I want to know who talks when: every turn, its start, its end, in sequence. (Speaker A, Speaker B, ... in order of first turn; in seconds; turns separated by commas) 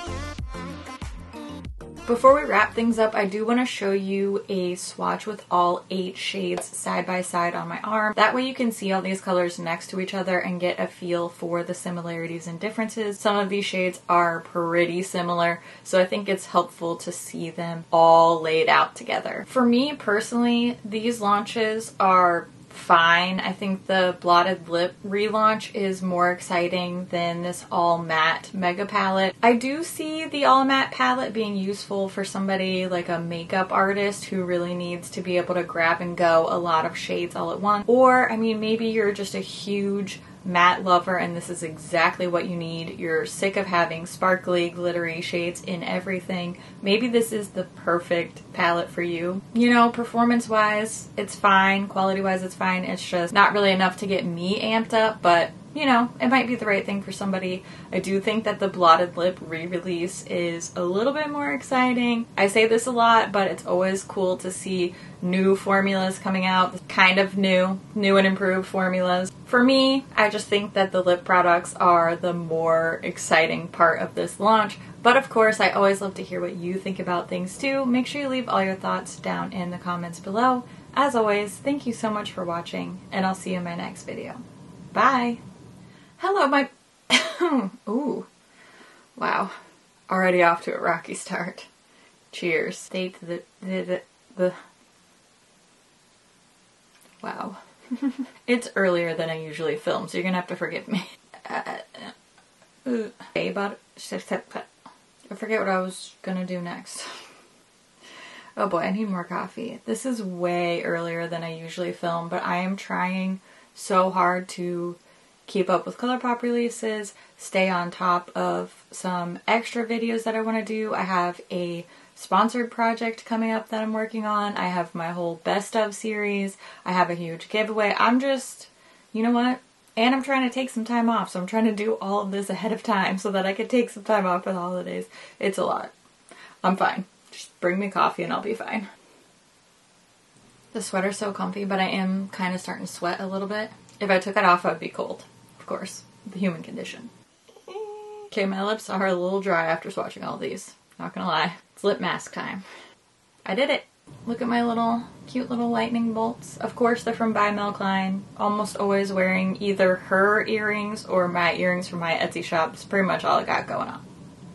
Speaker A: 2.1-84.4, Speaker A: 84.9-85.4, Speaker A: 86.2-88.3, Speaker A: 89.2-89.5, Speaker A: 90.1-91.7, Speaker A: 92.3-94.6, Speaker A: 97.2-102.2, Speaker A: 102.8-104.7, Speaker A: 105.3-107.2, Speaker A: 108.6-135.9, Speaker A: 136.6-138.9, Speaker A: 140.7-147.1, Speaker A: 147.6-152.6, Speaker A: 153.4-164.0